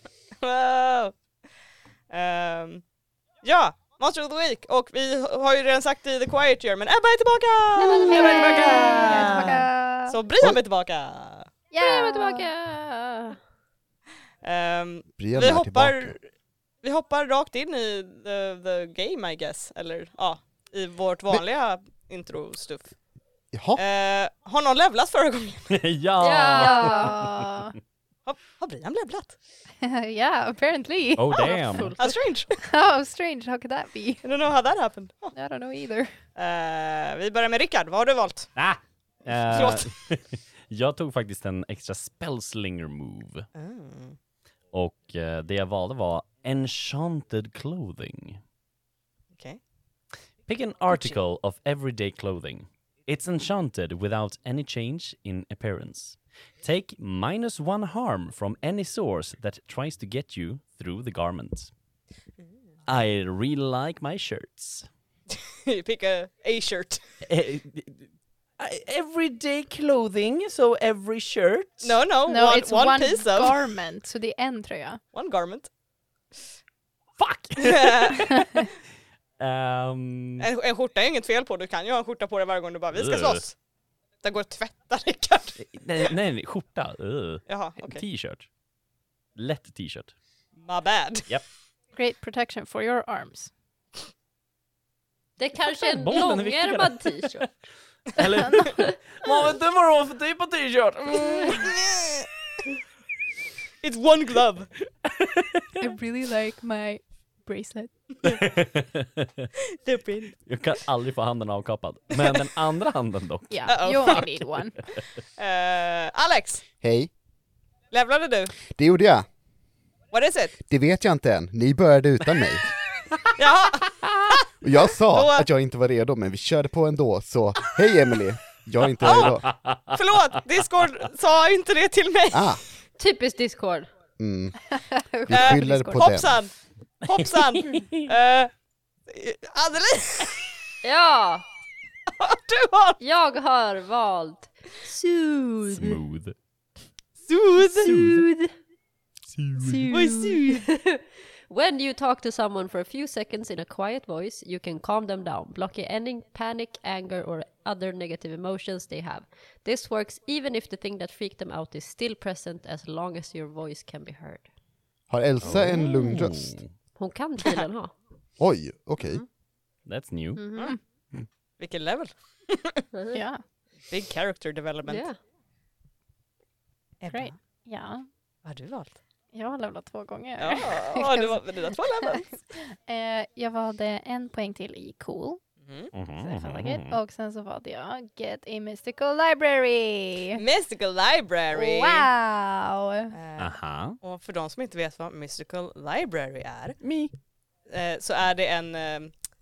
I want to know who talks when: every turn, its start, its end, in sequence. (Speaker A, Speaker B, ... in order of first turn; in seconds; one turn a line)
Speaker A: 0.4-1.1
Speaker A: 2.1-2.8
Speaker A: 3.4-11.5
Speaker B: 7.8-9.5
Speaker C: 7.9-10.2
Speaker C: 11.7-12.5
Speaker B: 11.8-13.4
Speaker A: 14.4-16.3
Speaker D: 15.2-16.1
Speaker A: 16.8-23.0
Speaker D: 23.5-23.8
Speaker A: 23.8-25.8
Speaker E: 25.7-27.5
Speaker B: 26.2-27.2
Speaker C: 26.6-27.8
Speaker A: 28.3-29.4
Speaker C: 29.8-31.9
Speaker E: 31.2-32.0
Speaker B: 31.4-32.2
Speaker A: 32.0-32.6
Speaker C: 32.6-34.2
Speaker A: 34.2-35.4
Speaker C: 35.3-36.1
Speaker A: 36.4-38.5
Speaker E: 38.6-43.5
Speaker A: 39.5-39.9
Speaker A: 43.5-44.2
Speaker E: 44.7-48.4
Speaker A: 49.3-49.6
Speaker E: 50.5-61.7
Speaker A: 50.9-51.2
Speaker E: 62.9-64.9
Speaker A: 65.3-67.0
Speaker E: 67.3-68.1
Speaker E: 68.6-72.0
Speaker A: 71.8-73.6
Speaker C: 72.3-75.0
Speaker A: 75.1-75.7
Speaker E: 77.2-78.7
Speaker A: 77.6-78.4
Speaker C: 78.4-78.6
Speaker E: 79.4-80.5
Speaker A: 80.4-83.6
Speaker E: 82.9-83.4
Speaker A: 84.2-86.1
Speaker E: 85.6-88.5
Speaker A: 87.5-88.0
Speaker E: 89.4-90.1
Speaker A: 90.6-91.3
Speaker C: 92.0-93.5
Speaker B: 95.4-97.5
Speaker E: 95.6-97.5
Speaker E: 98.1-101.7
Speaker B: 98.6-99.0
Speaker A: 101.5-102.3
Speaker A: 103.8-104.7
Speaker E: 105.0-106.0
Speaker C: 105.8-108.2
Speaker E: 108.2-109.5
Speaker A: 109.8-110.4
Speaker E: 110.5-114.2
Speaker C: 113.5-114.8
Speaker A: 113.7-114.3
Speaker A: 115.4-116.6
Speaker D: 116.8-117.1
Speaker A: 117.9-118.5
Speaker D: 118.7-119.3
Speaker A: 120.1-120.6
Speaker D: 120.7-122.7
Speaker A: 123.4-124.5
Speaker D: 124.6-129.5
Speaker A: 125.1-125.5
Speaker A: 129.0-132.6
Speaker E: 129.4-129.8
Speaker D: 132.3-132.6
Speaker B: 133.0-133.9
Speaker D: 134.2-134.5
Speaker C: 134.8-136.2
Speaker D: 135.3-136.3
Speaker A: 135.3-138.5
Speaker E: 137.6-137.9
Speaker A: 139.1-140.5
Speaker B: 140.8-141.4
Speaker A: 142.2-143.0
Speaker B: 143.0-146.0
Speaker E: 145.7-146.4
Speaker A: 147.3-147.9
Speaker B: 147.8-148.5
Speaker E: 147.8-148.3
Speaker E: 149.3-149.9
Speaker C: 149.6-150.4
Speaker B: 149.8-164.5
Speaker A: 149.9-150.7
Speaker D: 165.1-166.6
Speaker E: 165.4-166.7
Speaker B: 165.7-166.2
Speaker B: 166.9-167.9
Speaker D: 168.4-169.2
Speaker B: 169.0-169.3
Speaker E: 169.9-170.4
Speaker B: 170.4-170.7
Speaker A: 171.6-172.9
Speaker B: 172.9-173.2
Speaker C: 173.1-173.4
Speaker A: 173.9-175.1
Speaker B: 174.8-175.2
Speaker A: 177.0-177.4
Speaker C: 177.1-178.1
Speaker A: 178.4-179.0
Speaker C: 179.3-181.4
Speaker A: 180.4-182.3
Speaker C: 182.6-185.4
Speaker A: 185.6-185.9
Speaker E: 185.9-187.0
Speaker C: 186.2-190.4
Speaker A: 190.4-192.1
Speaker C: 191.6-193.1
Speaker A: 193.1-196.8
Speaker E: 193.4-194.0
Speaker E: 196.8-197.1
Speaker A: 197.7-199.1